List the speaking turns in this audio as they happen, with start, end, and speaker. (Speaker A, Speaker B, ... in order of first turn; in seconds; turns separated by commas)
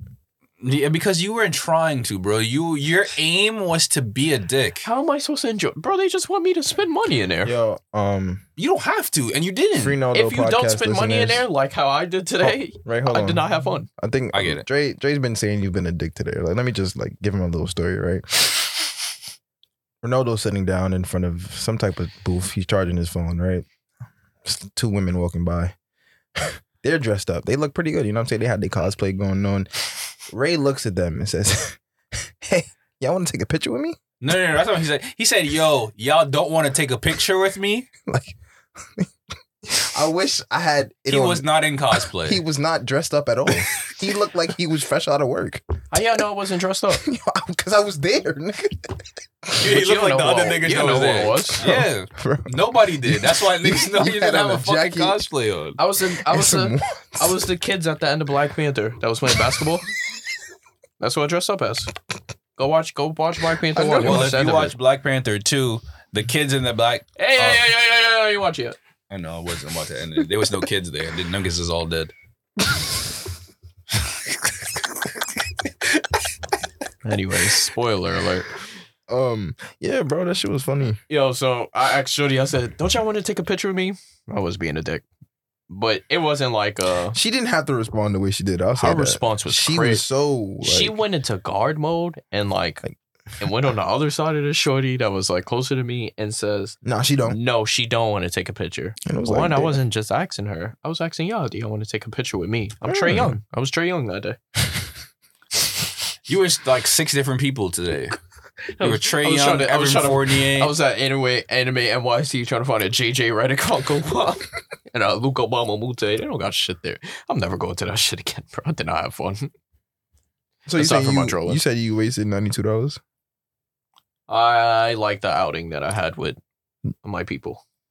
Speaker A: 0.6-4.8, Speaker B: 4.8-7.5, Speaker C: 7.4-8.4, Speaker A: 8.6-10.0, Speaker C: 9.8-11.4, Speaker B: 10.1-13.9, Speaker C: 12.4-13.4, Speaker C: 14.0-18.7, Speaker A: 14.3-14.7, Speaker C: 20.0-23.6, Speaker C: 24.4-25.7, Speaker C: 26.4-29.7, Speaker C: 30.3-34.0, Speaker A: 34.2-37.9, Speaker C: 38.0-39.1, Speaker C: 39.7-41.5, Speaker A: 41.1-42.4, Speaker C: 42.2-45.6, Speaker B: 45.9-47.0, Speaker C: 46.9-49.0, Speaker B: 49.6-51.6, Speaker A: 49.6-55.8, Speaker C: 51.6-55.2, Speaker B: 55.8-59.9, Speaker C: 56.2-57.4, Speaker B: 61.0-61.9, Speaker B: 62.5-64.7, Speaker A: 63.8-67.7, Speaker B: 67.2-68.8, Speaker A: 69.1-72.1, Speaker B: 77.0-78.5, Speaker C: 79.1-81.0, Speaker B: 81.1-85.0, Speaker B: 85.7-87.2, Speaker C: 87.1-91.0, Speaker B: 88.8-90.0, Speaker B: 90.6-92.8, Speaker B: 93.4-104.4, Speaker C: 96.8-97.4, Speaker C: 99.0-99.8, Speaker C: 102.8-103.4, Speaker A: 106.3-108.2, Speaker B: 108.7-119.5, Speaker A: 108.8-110.7, Speaker C: 120.7-123.0, Speaker B: 120.8-121.6, Speaker B: 124.3-126.4, Speaker B: 127.0-127.6